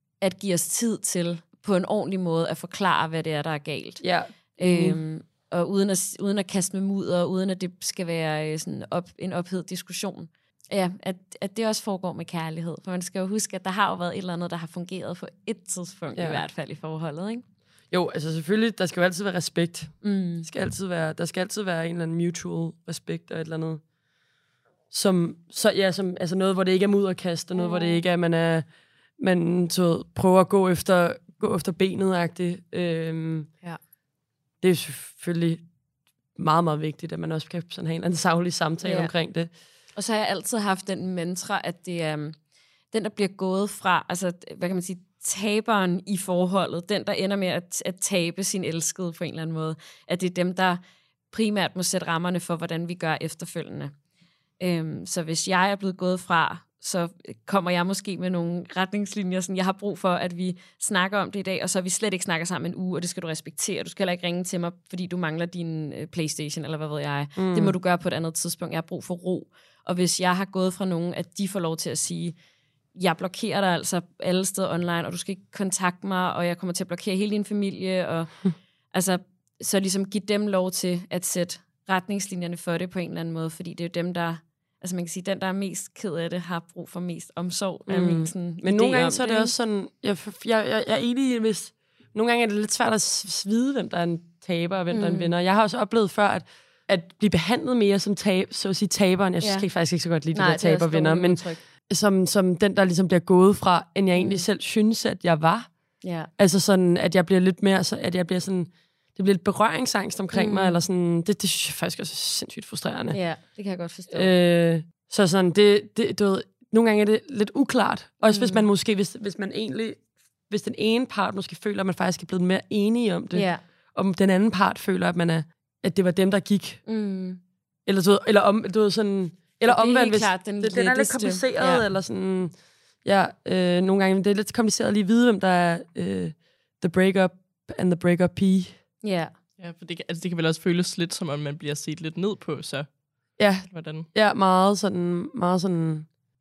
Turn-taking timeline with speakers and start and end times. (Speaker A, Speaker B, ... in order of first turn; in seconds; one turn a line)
Speaker A: 0.2-4.0
Speaker B: 4.0-5.0
Speaker A: 4.6-17.4
Speaker B: 16.1-16.4
Speaker B: 17.9-23.8
Speaker A: 20.0-20.5
Speaker B: 24.9-28.6
Speaker A: 27.6-28.0
Speaker B: 29.2-33.5
Speaker B: 34.6-35.6
Speaker B: 36.4-39.5
Speaker A: 38.8-39.1
Speaker A: 40.0-42.4
Speaker A: 42.9-53.9
Speaker A: 54.6-72.3
Speaker B: 67.4-67.8
Speaker A: 73.0-78.3
Speaker A: 78.9-89.5
Speaker B: 87.9-105.7
Speaker A: 94.9-95.3
Speaker A: 99.4-99.7
Speaker A: 100.3-101.6
Speaker A: 104.2-104.5
Speaker A: 106.0-106.3
Speaker B: 106.4-113.2
Speaker A: 110.3-110.8
Speaker A: 113.1-114.3
Speaker B: 114.1-126.8
Speaker A: 118.3-118.7
Speaker A: 123.3-123.6
Speaker A: 126.9-127.4
Speaker B: 127.9-132.5
Speaker A: 129.7-131.8
Speaker B: 133.0-138.8
Speaker A: 139.0-139.3
Speaker C: 139.6-142.9
Speaker B: 143.4-146.1
Speaker C: 143.7-144.1